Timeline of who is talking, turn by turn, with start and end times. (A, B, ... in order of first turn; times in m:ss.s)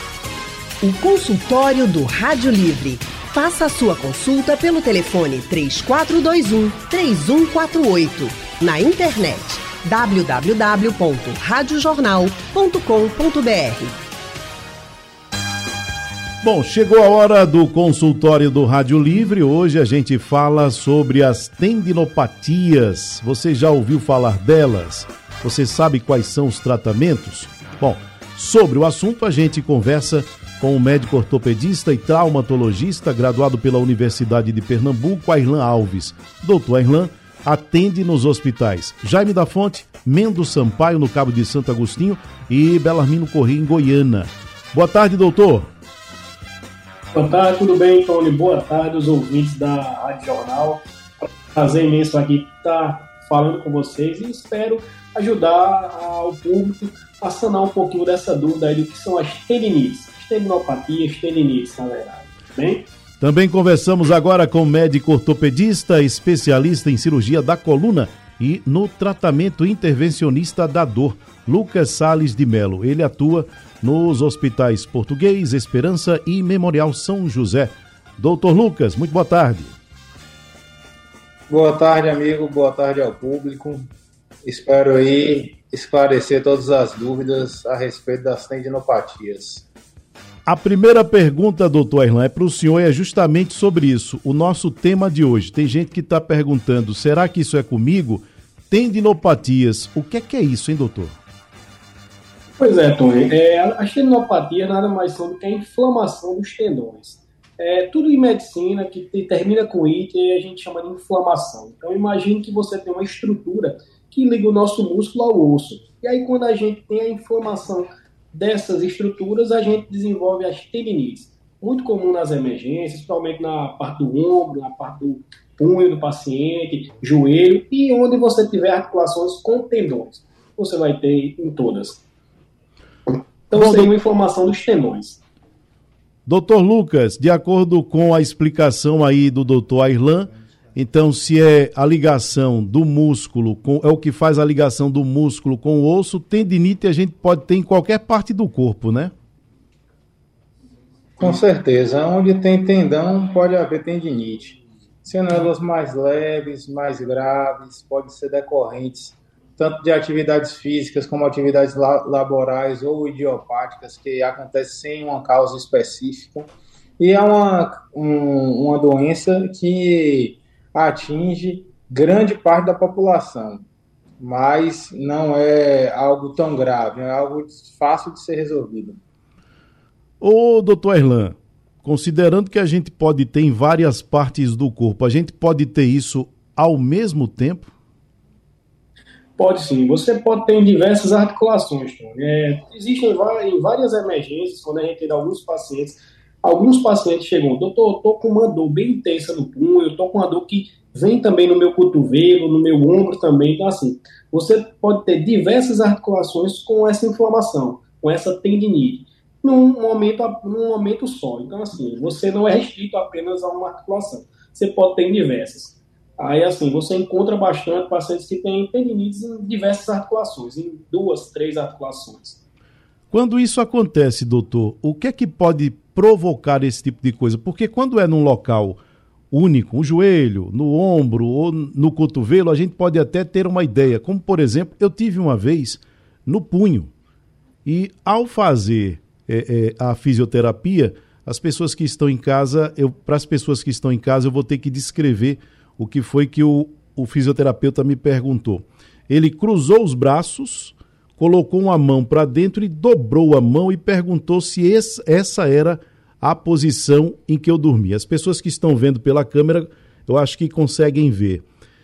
0:00.8-0:14.0 A
0:16.4-0:45.7 B
0:47.1-1:02.9 C
1:03.2-1:19.8 B
1:21.5-1:23.9 D
1:24.4-1:29.6 D
1:30.4-1:41.2 B
1:42.6-2:12.0 C
2:13.1-2:15.2 C
2:13.5-2:13.9 B
2:16.2-2:29.1 B
2:31.2-2:53.6 D
2:54.2-2:59.0 D
3:00.2-3:07.7 B
3:09.4-3:42.4 C
3:43.1-3:48.8 B
3:49.3-3:56.9 B
3:57.6-4:21.4 B